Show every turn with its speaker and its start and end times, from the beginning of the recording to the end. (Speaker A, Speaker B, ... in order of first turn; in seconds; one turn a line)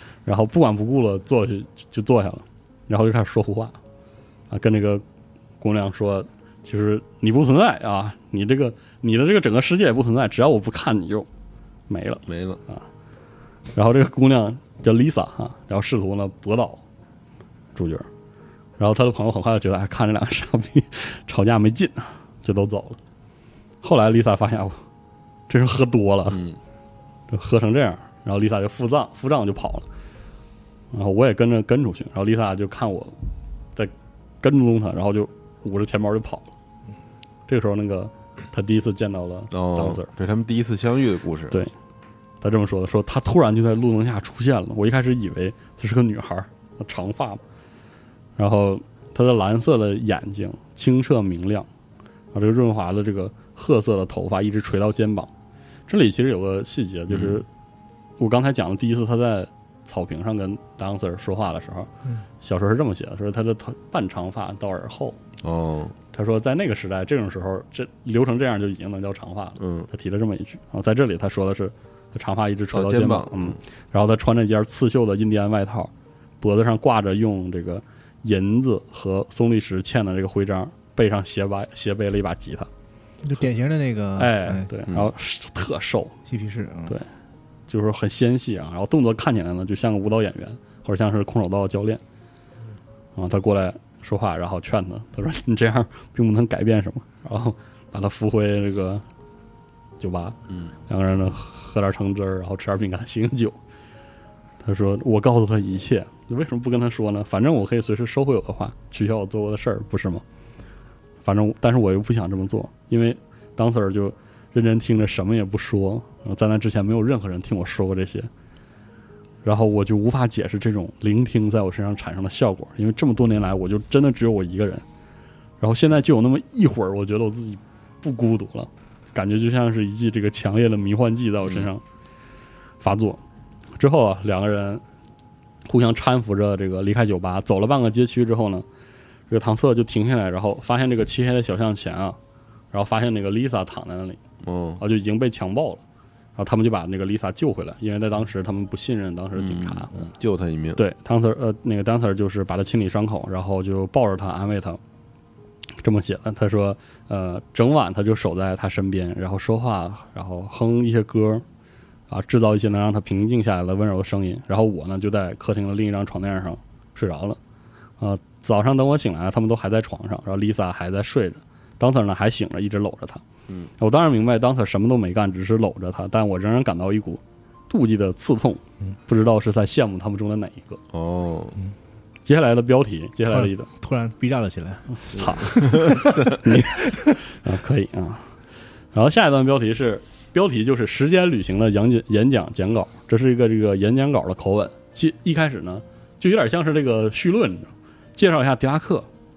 Speaker A: 0.2-3.8
Speaker A: 4.5-5.0
Speaker A: 5.6-11.3
Speaker A: 11.9-12.8
Speaker B: 12.3-12.6
Speaker A: 13.7-16.8
Speaker A: 17.7-18.1
Speaker A: 18.8-23.0
Speaker A: 23.8-24.8
Speaker A: 25.5-26.4
Speaker B: 26.3-26.6
Speaker A: 27.3-29.9
Speaker A: 30.9-33.1
Speaker A: 33.7-36.5
Speaker A: 37.5-40.1
Speaker B: 39.5-41.6
Speaker A: 42.4-47.4
Speaker A: 48.4-51.7
Speaker A: 52.3-55.3
Speaker A: 55.9-57.5
Speaker B: 57.1-57.4
Speaker A: 58.2-61.9
Speaker A: 62.4-65.2
Speaker B: 65.4-65.9
Speaker A: 66.1-82.7
Speaker B: 69.6-69.9
Speaker B: 72.7-73.6
Speaker C: 83.2-84.7
Speaker A: 84.2-86.2
Speaker C: 86.2-86.9
Speaker A: 87.7-92.0
Speaker A: 93.2-99.0
Speaker A: 100.0-103.6
Speaker A: 104.6-110.2
Speaker A: 111.2-118.3
Speaker A: 119.4-124.8
Speaker A: 125.6-131.8
Speaker A: 132.8-133.2
Speaker A: 133.8-134.8
Speaker A: 135.6-138.6
Speaker A: 139.3-142.2
Speaker A: 142.7-144.2
Speaker B: 144.4-144.8
Speaker A: 144.8-145.8
Speaker A: 146.4-150.1
Speaker B: 149.3-150.8
Speaker A: 150.8-154.8
Speaker A: 155.8-161.4
Speaker A: 162.1-167.4
Speaker A: 168.0-173.2
Speaker A: 173.8-180.8
Speaker B: 180.9-181.6
Speaker A: 182.2-183.7
Speaker C: 183.3-186.4
Speaker A: 185.0-188.2
Speaker B: 185.1-186.3
Speaker A: 188.9-199.1